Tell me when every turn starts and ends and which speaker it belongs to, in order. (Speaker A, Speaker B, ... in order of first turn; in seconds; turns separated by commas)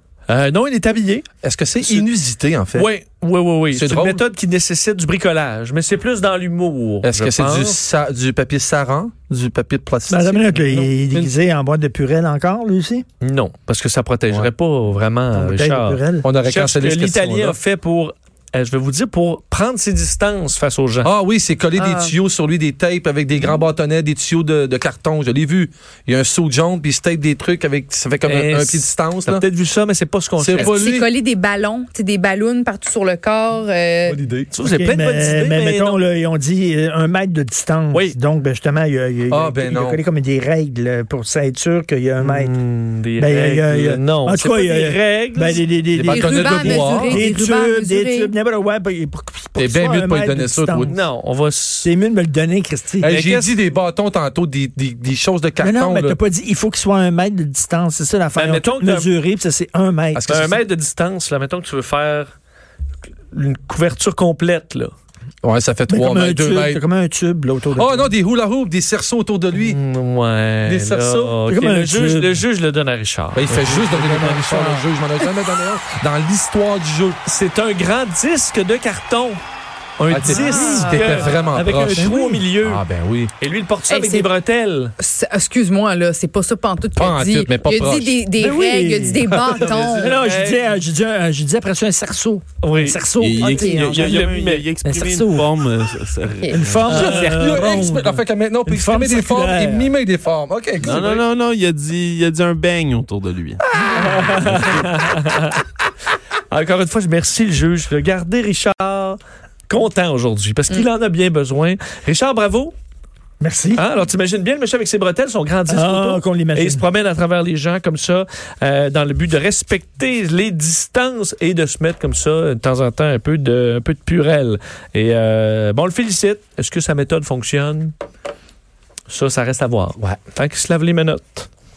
Speaker A: 0.3-1.2, Speaker B: 1.4-2.9, Speaker A: 1.8-2.1, Speaker A: 2.7-7.8, Speaker B: 3.7-4.2, Speaker B: 7.0-11.3, Speaker C: 10.1-13.0, Speaker A: 13.2-21.1, Speaker C: 15.3-16.3, Speaker B: 16.2-17.6, Speaker B: 21.0-29.4, Speaker D: 21.8-22.1, Speaker A: 28.2-30.8, Speaker B: 30.4-31.1, Speaker D: 30.7-34.2, Speaker B: 34.1-34.5, Speaker A: 34.5-36.0, Speaker C: 34.6-42.5, Speaker A: 37.9-38.2, Speaker B: 39.3-40.0, Speaker A: 42.2-45.6, Speaker C: 43.2-50.9, Speaker B: 45.9-47.2, Speaker D: 46.0-48.3, Speaker B: 49.6-51.0, Speaker A: 50.8-51.9, Speaker C: 51.8-53.1, Speaker B: 53.0-56.2, Speaker A: 53.0-53.5, Speaker C: 55.6-60.2, Speaker A: 58.3-59.1, Speaker B: 60.1-60.6, Speaker A: 60.3-62.3, Speaker A: 63.3-64.9, Speaker B: 65.4-66.8, Speaker C: 65.9-68.1, Speaker B: 67.7-69.8, Speaker A: 69.5-74.3, Speaker B: 70.6-71.4, Speaker C: 71.5-72.4, Speaker B: 73.3-77.2, Speaker C: 74.0-74.9, Speaker A: 77.2-79.4, Speaker A: 80.0-82.8, Speaker B: 80.1-83.3, Speaker D: 80.2-81.6, Speaker C: 81.9-82.4, Speaker A: 83.4-84.9, Speaker D: 83.9-84.3, Speaker D: 85.0-90.1, Speaker B: 87.0-88.2, Speaker C: 88.4-89.2, Speaker B: 89.2-89.9, Speaker A: 89.8-90.8, Speaker C: 90.0-93.6, Speaker A: 92.6-93.1, Speaker E: 93.2-96.8, Speaker D: 93.3-94.1, Speaker A: 93.8-94.7, Speaker C: 94.8-95.5, Speaker C: 96.5-99.9, Speaker A: 96.8-97.4, Speaker B: 96.8-101.2, Speaker E: 100.8-103.6, Speaker A: 103.9-105.6, Speaker E: 104.2-104.9, Speaker A: 106.5-112.7, Speaker C: 113.4-113.8, Speaker A: 113.7-127.9, Speaker C: 115.7-116.8, Speaker A: 129.1-131.5